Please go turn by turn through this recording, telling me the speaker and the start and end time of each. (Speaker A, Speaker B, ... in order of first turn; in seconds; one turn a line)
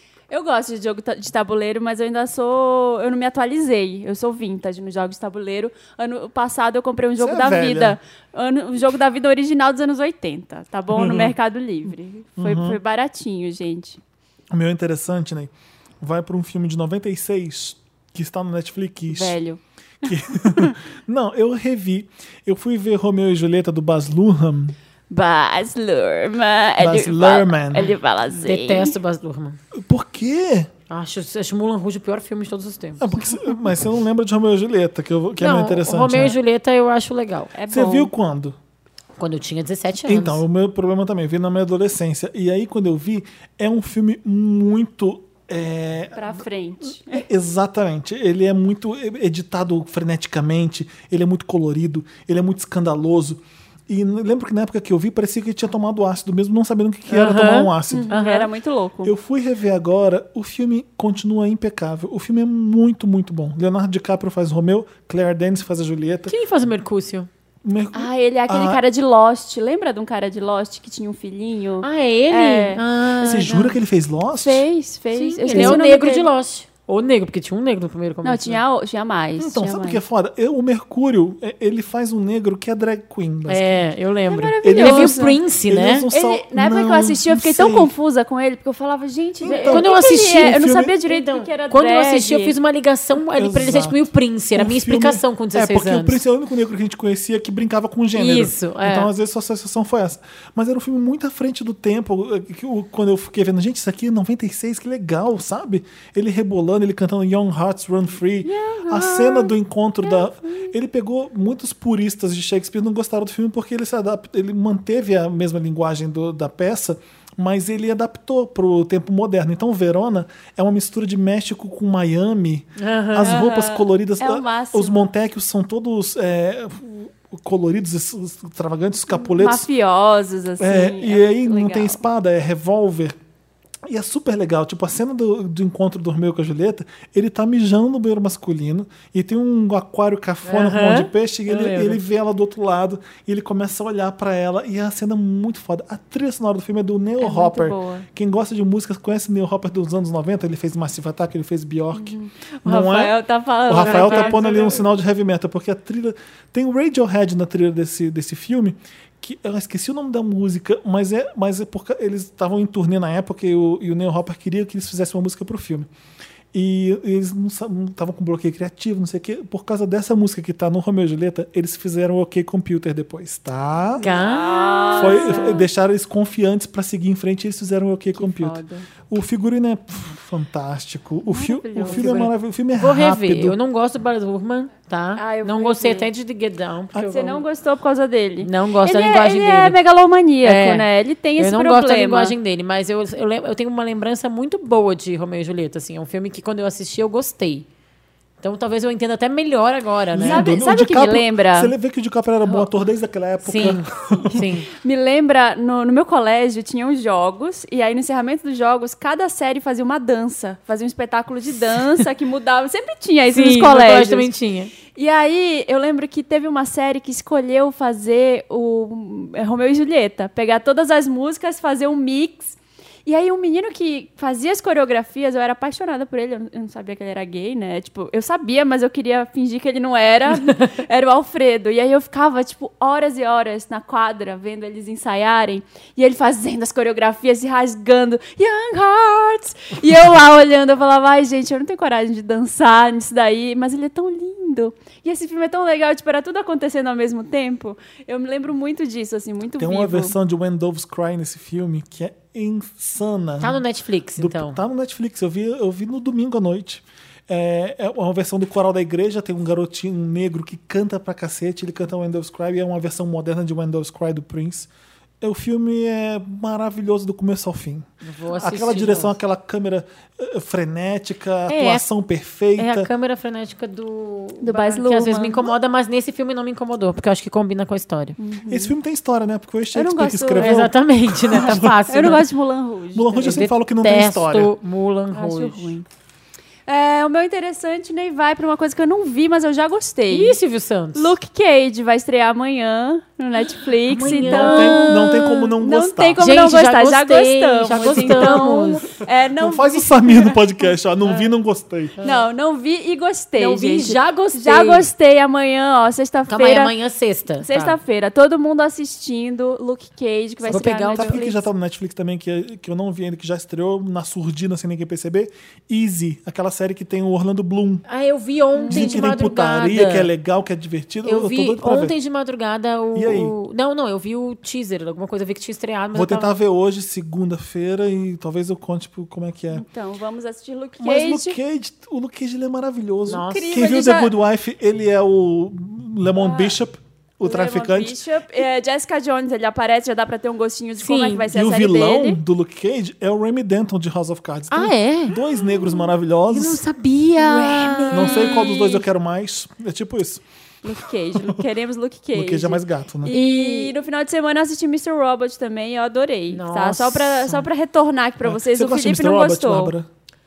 Speaker A: 0.3-14.0
Speaker B: 7.2-8.0
Speaker B: 10.9-11.4
Speaker B: 12.4-12.8
Speaker B: 14.5-19.4
Speaker A: 19.1-20.8
Speaker B: 20.0-24.8
Speaker A: 25.1-29.0
Speaker B: 26.8-27.9
Speaker C: 28.4-29.6
Speaker B: 29.7-30.7
Speaker C: 30.9-33.2
Speaker B: 33.0-36.4
Speaker C: 35.4-37.5
Speaker A: 37.5-38.1
Speaker B: 37.7-38.6
Speaker C: 39.2-40.4
Speaker B: 40.0-46.5
Speaker A: 46.1-47.2
Speaker B: 47.0-58.1
Speaker C: 57.1-58.5
Speaker A: 57.9-59.1
Speaker B: 59.0-66.3
Speaker C: 66.3-67.3
Speaker B: 67.6-68.8
Speaker A: 67.9-72.8
Speaker C: 71.8-73.8
Speaker B: 73.2-74.7
Speaker A: 74.4-76.3
Speaker C: 75.1-78.6
Speaker B: 75.5-75.8
Speaker A: 78.2-80.0
Speaker B: 79.4-83.9
Speaker C: 83.5-86.1
Speaker A: 84.3-85.4
Speaker B: 84.6-87.9
Speaker A: 86.1-92.6
Speaker B: 89.4-91.0
Speaker C: 89.5-96.2
Speaker B: 93.4-129.7
Speaker C: 98.2-99.1
Speaker A: 108.5-110.7
Speaker C: 122.8-123.5
Speaker A: 123.2-125.1
Speaker A: 129.2-132.0
Speaker B: 130.6-133.2
Speaker B: 133.9-153.2
Speaker C: 140.4-142.0
Speaker A: 147.2-148.1
Speaker A: 151.9-154.9
Speaker B: 153.7-165.9
Speaker C: 153.8-154.3
Speaker B: 166.5-174.1
Speaker A: 174.0-175.7
Speaker C: 174.0-175.4
Speaker B: 174.9-183.6
Speaker A: 178.2-178.8
Speaker A: 181.3-182.3
Speaker C: 181.8-187.4
Speaker A: 185.2-186.1
Speaker A: 186.9-192.3
Speaker C: 188.4-189.8
Speaker C: 190.4-197.7
Speaker C: 198.4-200.5
Speaker B: 200.1-204.4
Speaker A: 200.2-201.7
Speaker A: 202.4-202.7
Speaker C: 203.4-204.7
Speaker A: 204.2-214.3
Speaker C: 213.3-214.7
Speaker A: 214.9-250.2
Speaker B: 249.6-253.6
Speaker C: 253.4-254.6
Speaker B: 254.2-264.7
Speaker B: 265.2-272.9
Speaker C: 268.0-269.2
Speaker C: 271.5-271.9
Speaker C: 272.6-278.2
Speaker A: 274.4-275.5
Speaker A: 278.2-278.7
Speaker B: 278.5-282.2
Speaker A: 279.7-280.7
Speaker C: 280.4-282.2
Speaker A: 281.4-283.4
Speaker B: 282.9-284.6
Speaker C: 283.2-285.8
Speaker A: 285.1-285.9
Speaker A: 286.7-290.4
Speaker C: 290.1-291.1
Speaker A: 290.9-300.5
Speaker C: 293.9-295.1
Speaker B: 294.1-296.2
Speaker C: 296.2-298.9
Speaker B: 297.8-298.2
Speaker B: 299.4-302.0
Speaker C: 302.0-302.3
Speaker A: 302.0-306.7
Speaker C: 303.4-304.9
Speaker C: 306.3-307.8
Speaker A: 307.4-311.4
Speaker B: 310.4-317.9
Speaker C: 310.5-311.2
Speaker C: 317.9-320.1
Speaker A: 318.6-319.3
Speaker B: 318.7-321.9
Speaker C: 321.0-326.3
Speaker B: 322.9-323.3
Speaker B: 325.9-329.6
Speaker A: 329.5-331.4
Speaker B: 330.8-338.0
Speaker C: 333.1-333.5
Speaker A: 333.3-334.1
Speaker A: 336.2-336.5
Speaker A: 337.2-342.2
Speaker C: 340.8-341.3
Speaker B: 341.3-346.6
Speaker C: 344.5-345.2
Speaker C: 346.3-348.4
Speaker A: 347.2-348.9
Speaker B: 347.9-350.2
Speaker A: 350.6-359.7
Speaker B: 352.1-353.1
Speaker C: 353.1-353.7
Speaker C: 356.3-357.5
Speaker B: 358.2-359.9